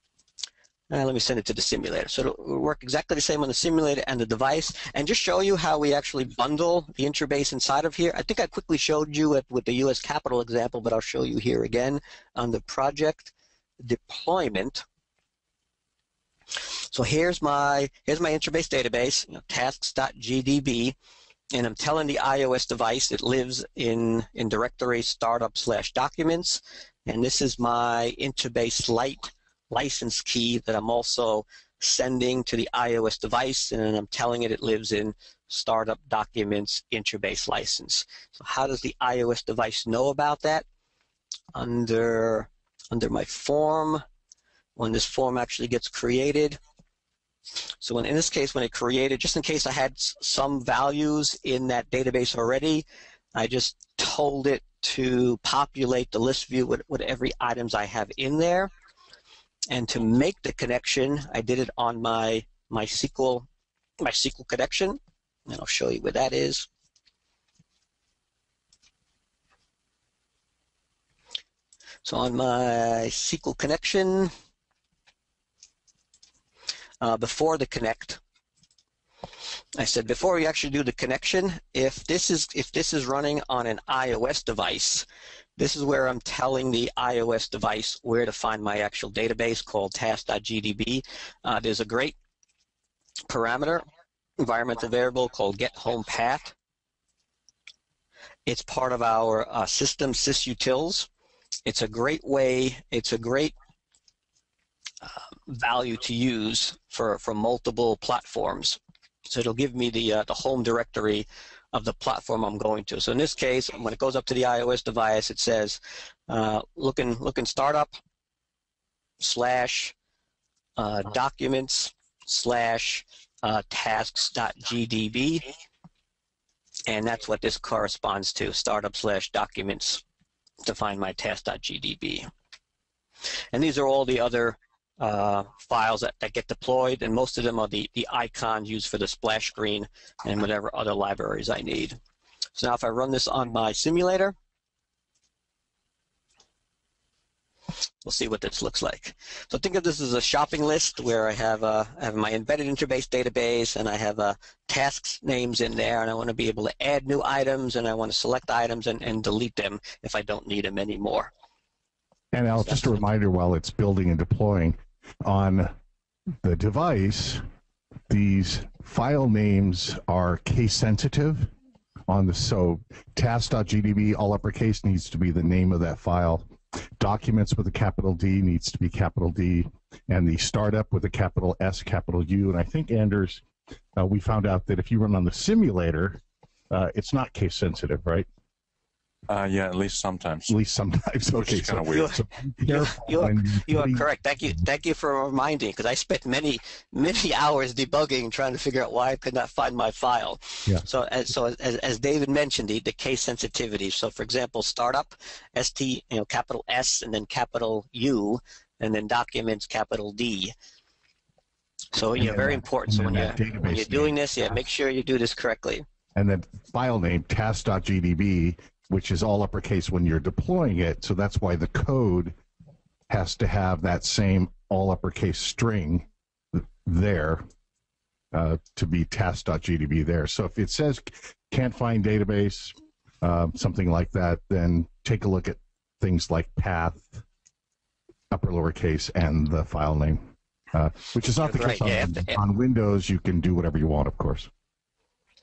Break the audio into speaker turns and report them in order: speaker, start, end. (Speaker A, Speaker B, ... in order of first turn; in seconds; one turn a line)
Speaker A: 0.9-14.8
Speaker A: 16.9-20.9
Speaker A: 21.5-40.6
Speaker A: 41.5-44.0
Speaker A: 44.8-46.6
Speaker A: 47.8-58.7
Speaker A: 59.7-63.5
Speaker A: 64.0-66.7
Speaker A: 72.0-74.3
Speaker A: 77.0-78.2
Speaker A: 79.8-85.0
Speaker A: 85.6-92.1
Speaker A: 93.3-93.8
Speaker A: 94.4-96.5
Speaker A: 98.5-101.1
Speaker A: 101.6-103.5
Speaker A: 105.0-108.8
Speaker A: 109.3-118.0
Speaker A: 119.2-119.9
Speaker A: 120.8-125.5
Speaker A: 126.9-130.0
Speaker A: 130.6-132.3
Speaker A: 133.5-142.0
Speaker A: 142.6-144.3
Speaker A: 148.0-161.3
Speaker B: 162.3-165.7
Speaker A: 162.6-163.0
Speaker B: 166.4-167.4
Speaker B: 168.1-171.5
Speaker B: 172.1-183.4
Speaker B: 183.9-188.3
Speaker C: 189.3-190.6
Speaker B: 190.5-194.6
Speaker C: 191.3-192.2
Speaker A: 191.9-210.5
Speaker A: 211.9-215.8
Speaker B: 212.2-214.1
Speaker B: 216.1-222.3
Speaker B: 223.1-227.4
Speaker B: 228.3-237.2
Speaker B: 238.3-244.5
Speaker A: 241.4-242.4